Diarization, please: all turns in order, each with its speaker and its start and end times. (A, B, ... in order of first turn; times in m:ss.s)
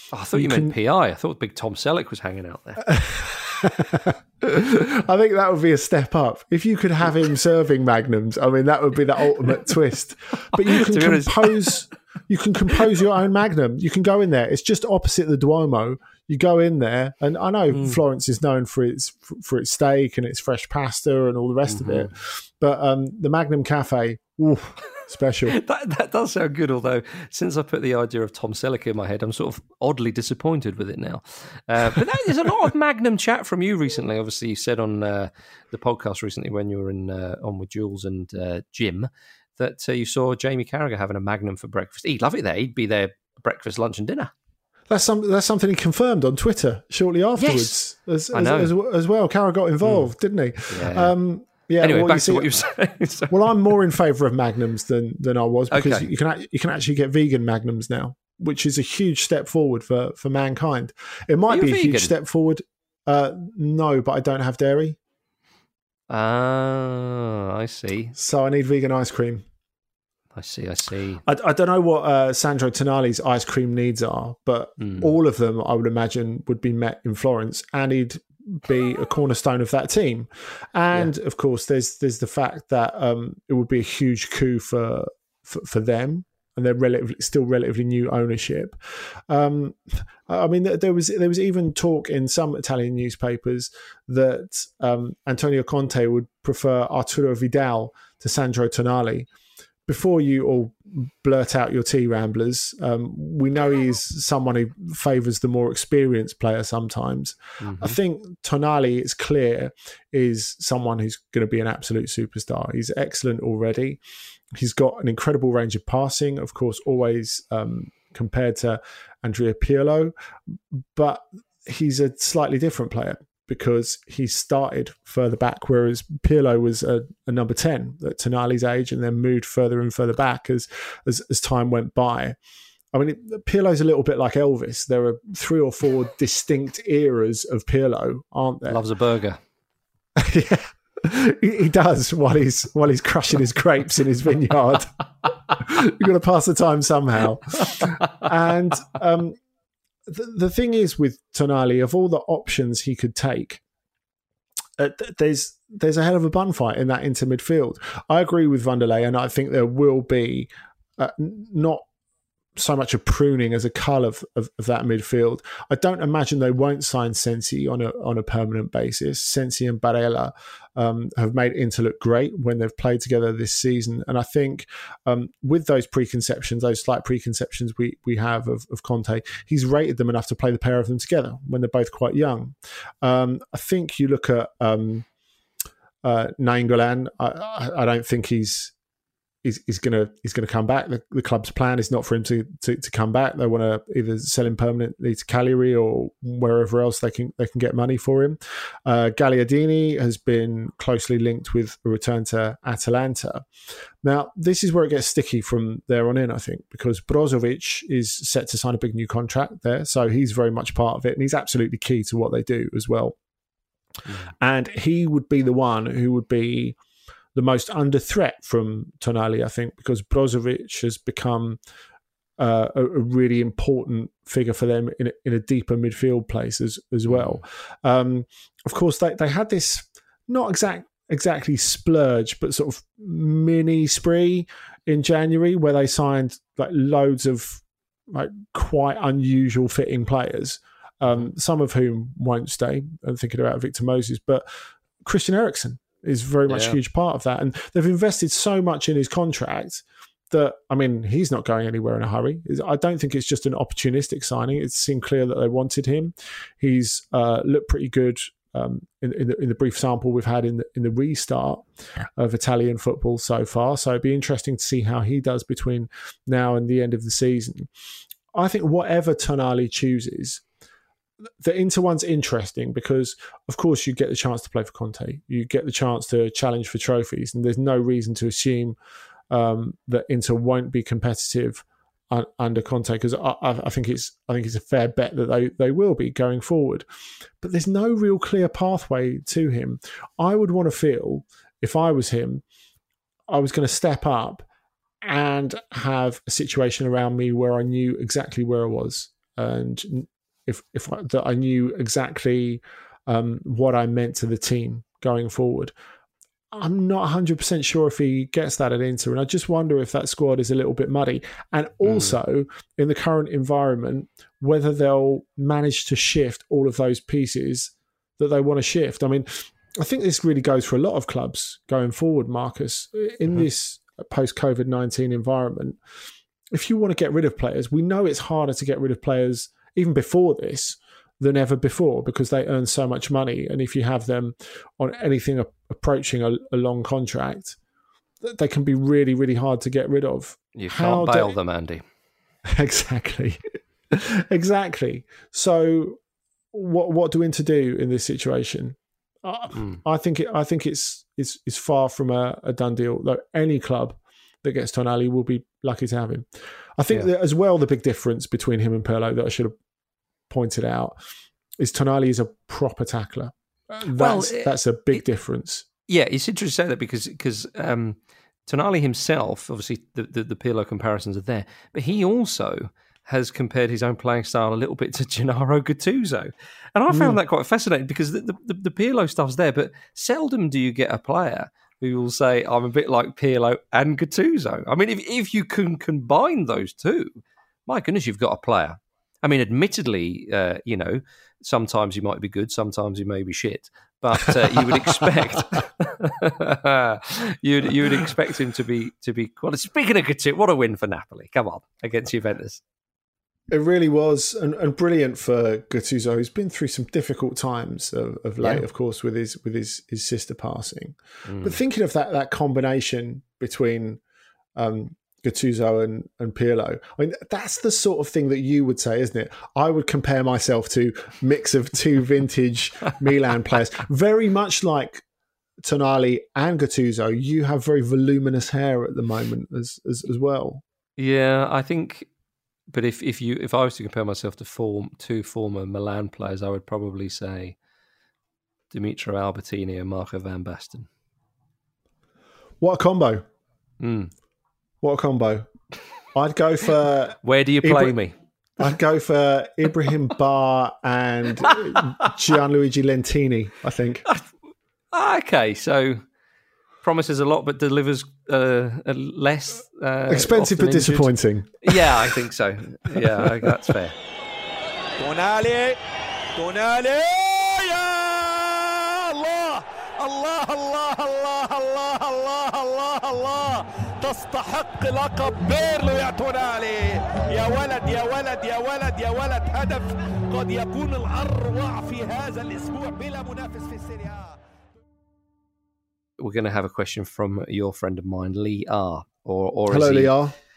0:00.1-0:02.9 A
0:00.3-0:00.8 B
0:02.9-0:25.6 B
0:10.6-0:11.8 A
0:17.7-0:18.0 A
0:21.7-0:22.1 A
0:25.5-0:44.3 A
0:44.9-0:52.5 B
0:47.4-0:47.8 A
0:48.3-0:48.7 A
0:49.8-0:50.1 A
0:50.7-0:51.2 A
0:51.8-0:53.5 A
0:53.3-1:05.0 B
0:55.7-0:56.1 A
1:01.5-1:02.1 A
1:06.1-1:08.2 A
1:08.2-1:09.4 B
1:10.4-1:11.2 A
1:11.2-1:39.3 B
1:14.8-1:15.1 A
1:39.9-1:54.0 B
1:47.6-1:48.0 A
1:54.5-2:12.4 B
2:12.9-2:18.8 B
2:18.7-2:19.4 A
2:20.2-2:24.9 B
2:25.5-2:29.4 B
2:30.1-2:33.6 B
2:34.8-2:41.9 B
2:42.6-3:05.1 B
3:06.0-3:08.7 B
3:09.4-3:23.5 B
3:24.0-3:33.2 B
3:34.4-3:36.8 B
3:37.4-3:41.6 B
3:42.4-4:04.5 B
3:47.1-3:47.4 A
4:05.0-4:27.7 B
4:06.5-4:06.8 A
4:28.3-4:30.4 B
4:31.4-4:38.8 B
4:39.3-4:46.9 B
4:47.4-4:52.4 B
4:53.3-4:54.5 B
4:55.0-5:05.7 B
5:06.5-5:25.8 B
5:11.9-5:12.1 A
5:26.5-5:37.6 B
5:38.2-5:41.4 B
5:40.6-5:41.8 A
5:42.5-5:46.0 B
5:46.5-5:59.6 B
5:49.6-5:49.8 A
6:00.3-6:01.0 B
6:01.6-6:05.7 B
6:03.9-6:05.0 A
6:05.9-6:42.6 A
6:16.9-6:17.2 B
6:43.5-6:54.0 B
6:51.2-6:51.6 A
6:54.6-7:05.0 B
7:05.6-7:10.6 B
7:11.0-7:12.1 A
7:12.7-7:17.6 A
7:18.7-7:20.9 A
7:22.6-7:23.3 B
7:23.8-7:24.1 A
7:24.8-7:25.5 B
7:26.1-7:28.0 B
7:27.2-7:28.2 A
7:28.6-7:34.0 B
7:34.9-7:36.0 A
7:36.8-7:44.0 A
7:40.1-7:42.0 B
7:45.0-7:45.8 C
7:46.4-8:04.4 C
8:06.2-8:10.1 A
8:09.7-8:10.4 B